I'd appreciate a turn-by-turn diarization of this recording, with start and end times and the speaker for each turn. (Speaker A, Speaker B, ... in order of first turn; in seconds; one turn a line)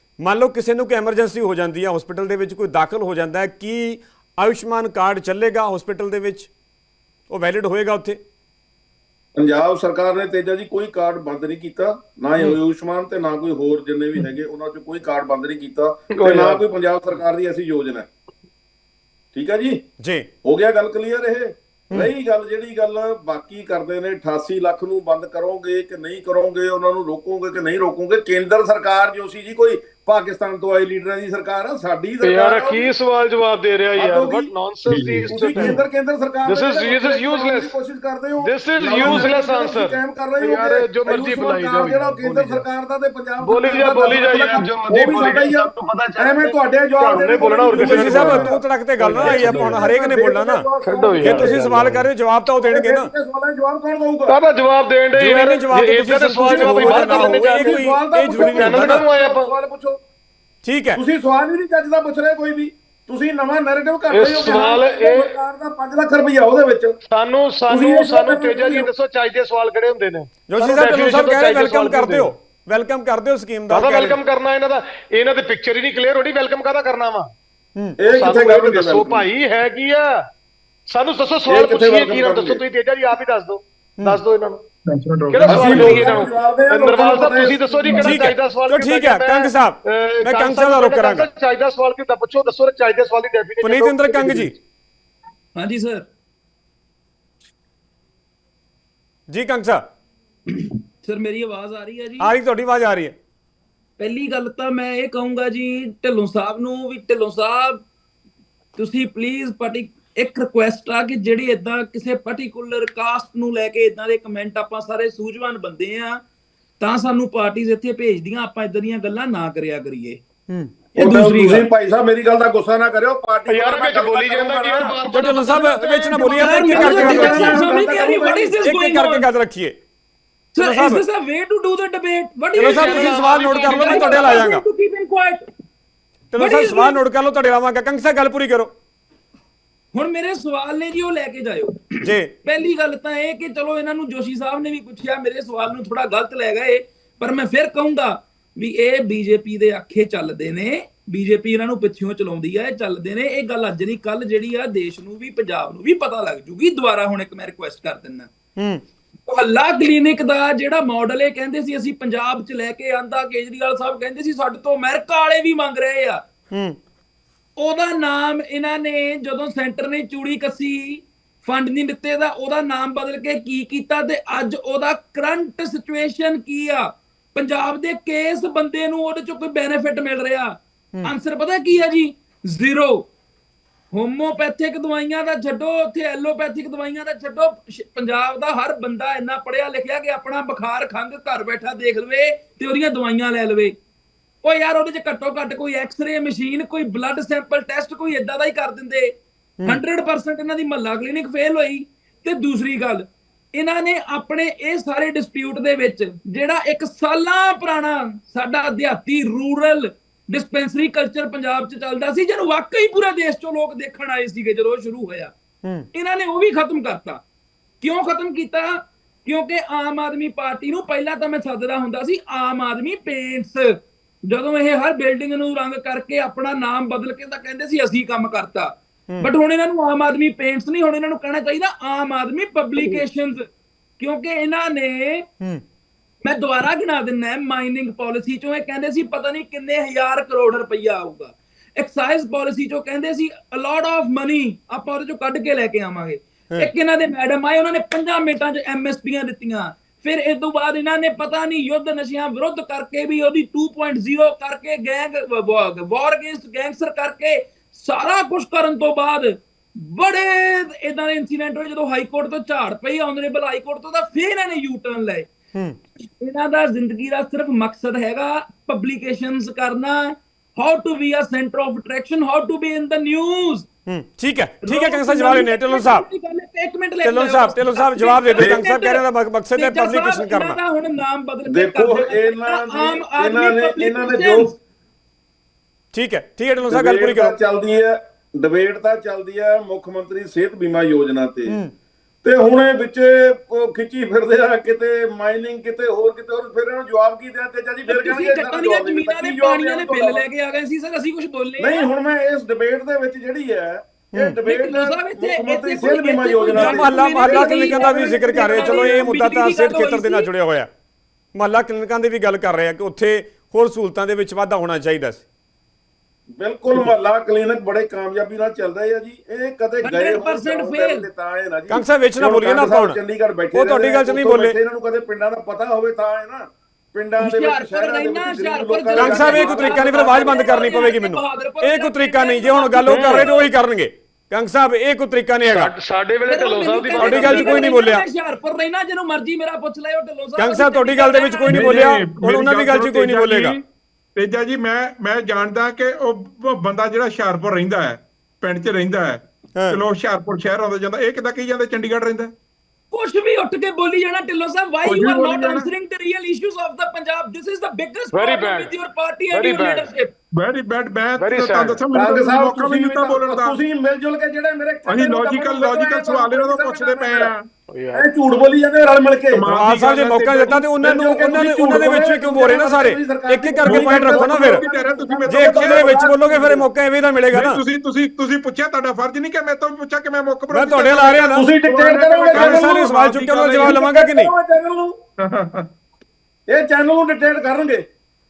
Speaker A: 0.2-6.5
Speaker A: 7.3-8.2
Speaker B: 9.4-18.1
Speaker C: 16.1-16.6
Speaker B: 19.3-19.8
Speaker A: 20.0-20.3
Speaker B: 20.4-32.9
Speaker C: 32.2-35.8
Speaker B: 34.0-34.5
Speaker D: 34.9-35.8
Speaker B: 35.3-48.6
Speaker C: 36.4-37.7
Speaker C: 38.4-42.7
Speaker C: 43.4-49.9
Speaker A: 47.7-50.7
Speaker B: 49.2-51.6
Speaker C: 50.8-52.1
Speaker A: 51.2-53.1
Speaker B: 52.7-54.3
Speaker C: 54.3-59.5
Speaker A: 55.1-59.0
Speaker B: 56.4-60.0
Speaker A: 60.6-61.0
Speaker B: 60.9-66.9
Speaker C: 64.1-65.3
Speaker C: 67.1-72.3
Speaker B: 67.7-68.9
Speaker A: 70.5-74.2
Speaker C: 73.7-77.3
Speaker B: 78.0-79.3
Speaker C: 78.1-80.2
Speaker C: 80.9-84.6
Speaker B: 81.5-82.6
Speaker D: 84.9-86.1
Speaker C: 85.3-94.6
Speaker B: 85.4-88.2
Speaker A: 87.9-91.3
Speaker A: 93.6-94.5
Speaker E: 95.5-96.0
Speaker A: 99.3-99.8
Speaker E: 100.5-102.3
Speaker A: 102.2-103.1
Speaker E: 104.0-107.8
Speaker E: 108.8-116.2
Speaker E: 116.8-120.2
Speaker B: 120.9-125.0
Speaker E: 121.0-121.7
Speaker C: 123.5-127.6
Speaker A: 125.1-127.7
Speaker E: 126.3-129.3
Speaker B: 126.7-128.6
Speaker A: 128.6-129.8
Speaker E: 130.5-135.4
Speaker A: 130.6-131.0
Speaker C: 132.5-134.5
Speaker A: 132.6-134.6
Speaker A: 136.3-138.7
Speaker E: 136.3-137.0
Speaker E: 139.9-158.3
Speaker A: 142.0-142.3
Speaker A: 158.6-158.8
Speaker E: 159.3-166.2
Speaker A: 166.5-166.8
Speaker E: 167.6-183.1
Speaker E: 183.9-193.7
Speaker E: 194.4-199.1
Speaker E: 199.7-215.3
Speaker E: 215.9-217.2
Speaker E: 217.8-223.7
Speaker E: 224.3-233.4
Speaker E: 234.0-235.2
Speaker E: 236.2-259.3
Speaker E: 259.8-265.3
Speaker E: 266.2-273.7
Speaker A: 273.9-276.1
Speaker E: 274.6-284.6
Speaker A: 277.0-280.6
Speaker B: 278.4-278.6
Speaker B: 281.5-284.5
Speaker A: 285.9-287.4
Speaker B: 286.7-291.6
Speaker A: 291.5-291.7
Speaker B: 292.2-300.2
Speaker E: 297.9-301.9
Speaker B: 301.6-309.1
Speaker E: 304.4-310.3
Speaker A: 306.5-310.7
Speaker A: 311.4-315.2
Speaker B: 316.4-330.3
Speaker E: 319.8-321.1
Speaker A: 321.7-323.0
Speaker A: 323.5-324.6
Speaker E: 327.2-333.5
Speaker A: 329.0-335.7
Speaker C: 332.9-333.3
Speaker C: 335.4-337.7
Speaker E: 336.3-341.8
Speaker A: 337.0-338.1
Speaker A: 340.4-343.6
Speaker D: 341.5-343.6
Speaker D: 344.2-352.3
Speaker E: 352.9-360.1
Speaker D: 354.8-355.7
Speaker C: 358.1-358.8
Speaker C: 359.3-359.9
Speaker D: 360.4-363.6
Speaker C: 361.2-361.8
Speaker B: 361.9-367.3
Speaker D: 364.9-367.5
Speaker C: 367.7-368.1
Speaker B: 367.9-369.5
Speaker D: 369.3-370.7
Speaker A: 369.5-374.7
Speaker B: 370.8-376.7
Speaker D: 373.6-374.0
Speaker E: 374.0-374.6
Speaker D: 374.6-375.9
Speaker A: 375.3-377.6
Speaker D: 377.3-383.8
Speaker A: 380.5-381.5
Speaker B: 381.3-382.9
Speaker A: 382.3-384.3
Speaker B: 383.6-384.9
Speaker D: 385.2-385.7
Speaker B: 386.5-387.9